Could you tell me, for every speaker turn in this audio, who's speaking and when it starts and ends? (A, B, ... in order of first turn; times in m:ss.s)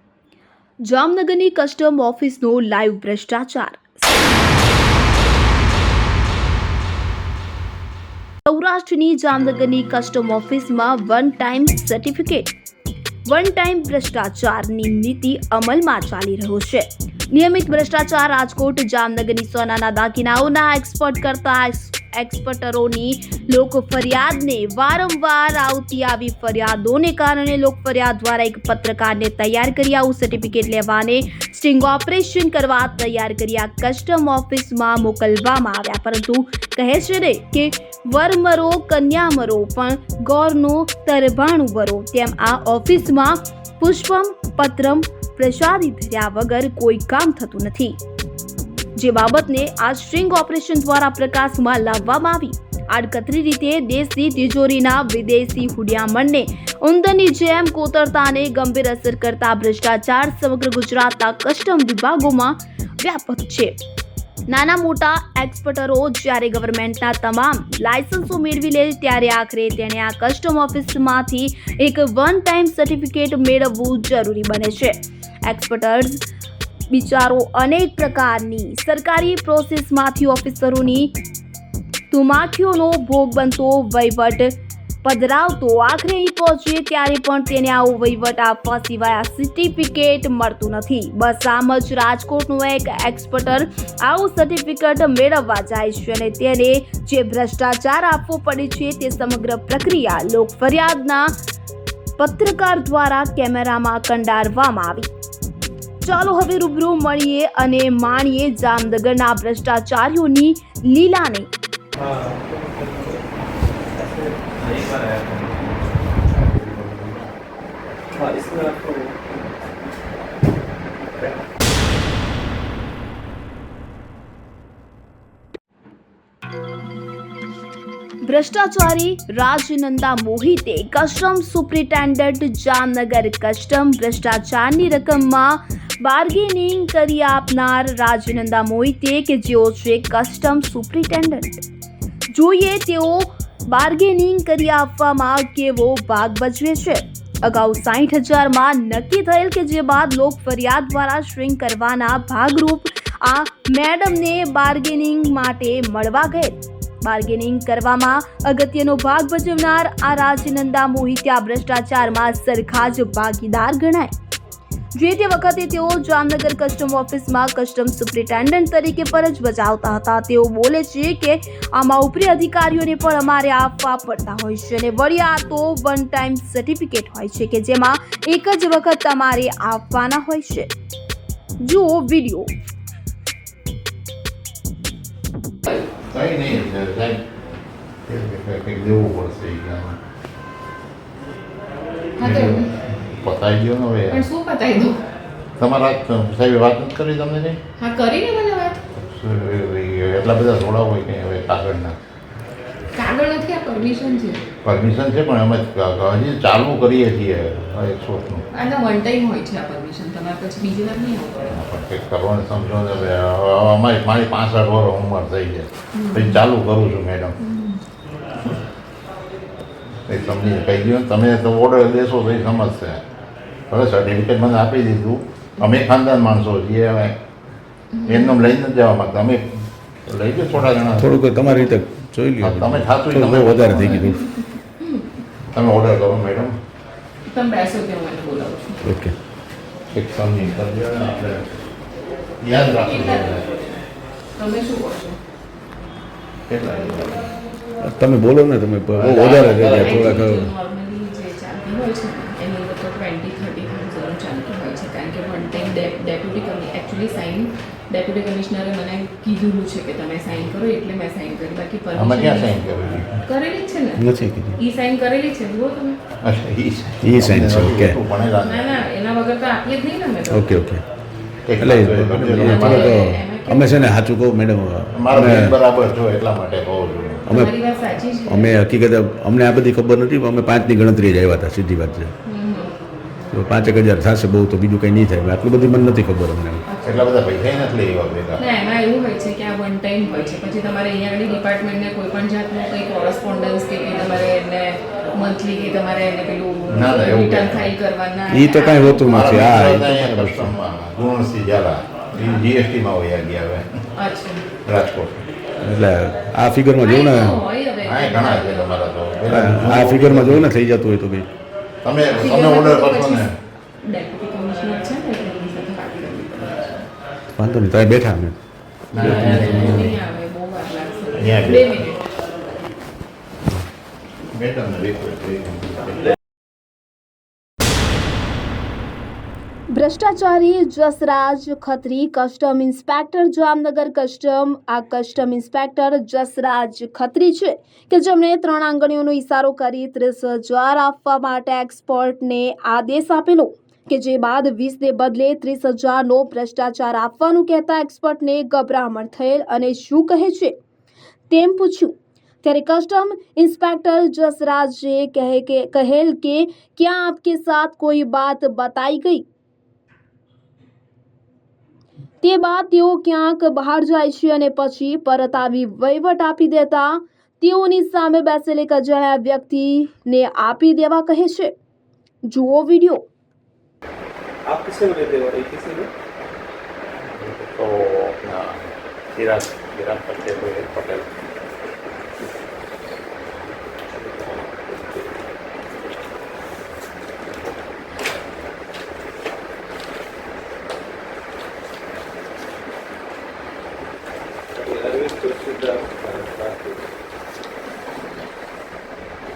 0:00.9-0:04.1 A
0:08.5-0:12.5 A
0:13.3-0:48.0 A
0:49.0-1:03.8 A
1:04.5-1:16.2 A
1:16.9-1:21.2 A
1:22.1-1:41.3 A
1:42.2-1:45.1 A
1:46.0-1:51.5 A
1:52.0-1:53.2 B
1:53.9-1:56.0 B
1:56.4-1:57.3 C
1:58.1-1:59.2 B
2:08.2-2:21.6 A
2:22.3-2:44.1 A
2:45.0-3:00.7 A
3:01.6-3:02.5 A
3:06.0-3:07.2 C
3:08.1-3:10.0 C
3:12.2-3:12.7 D
3:12.2-3:14.2 C
3:14.1-3:15.0 D
3:15.6-3:17.6 C
3:17.8-3:18.8 D
3:19.0-3:22.0 C
3:22.9-3:24.5 D
3:24.6-3:28.4 C
3:28.5-3:31.6 D
3:31.5-3:37.4 C
3:35.9-3:36.4 D
3:37.4-3:37.8 D
3:40.1-3:43.0 C
3:43.7-3:47.2 C
3:47.9-3:48.3 D
3:48.1-3:49.5 C
3:50.1-3:51.8 C
3:51.0-3:54.2 E
3:52.4-3:54.2 C
3:54.4-3:55.0 D
3:55.5-3:56.6 C
3:57.2-3:58.8 D
3:58.8-3:59.2 E
3:59.9-4:01.5 C
4:02.4-4:03.5 C
4:02.5-4:03.8 D
4:04.4-4:05.2 D
4:06.5-4:07.3 C
4:07.8-4:10.5 E
4:08.9-4:10.2 C
4:09.6-4:22.6 D
4:22.0-4:23.2 C
4:23.2-4:26.0 D
4:24.0-4:24.6 E
4:26.2-4:28.9 C
4:27.0-4:28.0 E
4:28.2-4:30.6 D
4:30.3-4:30.8 E
4:31.5-4:33.1 C
4:31.6-4:35.6 E
4:32.3-4:33.8 D
4:35.0-4:37.2 C
4:37.3-4:38.6 D
4:38.3-4:42.1 E
4:42.2-4:42.8 D
4:43.3-4:46.6 E
4:46.7-4:47.1 D
4:46.8-4:48.4 C
4:48.4-4:59.4 D
4:56.7-4:57.7 C
4:58.3-5:00.5 E
4:59.0-5:03.7 C
5:02.1-5:02.4 D
5:04.0-5:04.4 D
5:04.6-5:05.3 C
5:05.6-5:07.4 E
5:06.8-5:08.9 D
5:07.8-5:10.5 C
5:09.3-5:11.3 E
5:11.8-5:13.3 C
5:12.1-5:13.3 D
5:13.8-5:16.9 D
5:17.4-5:18.4 E
5:18.9-5:20.0 C
5:19.0-5:22.0 D
5:19.0-5:19.7 E
5:21.2-5:21.7 C
5:24.3-5:26.1 C
5:29.7-5:50.6 A
5:51.3-5:59.2 A
6:02.2-6:11.5 A
6:12.3-6:13.1 A
6:14.4-6:15.9 B
6:17.1-6:21.1 C
6:24.0-6:24.8 C
6:34.5-6:36.8 B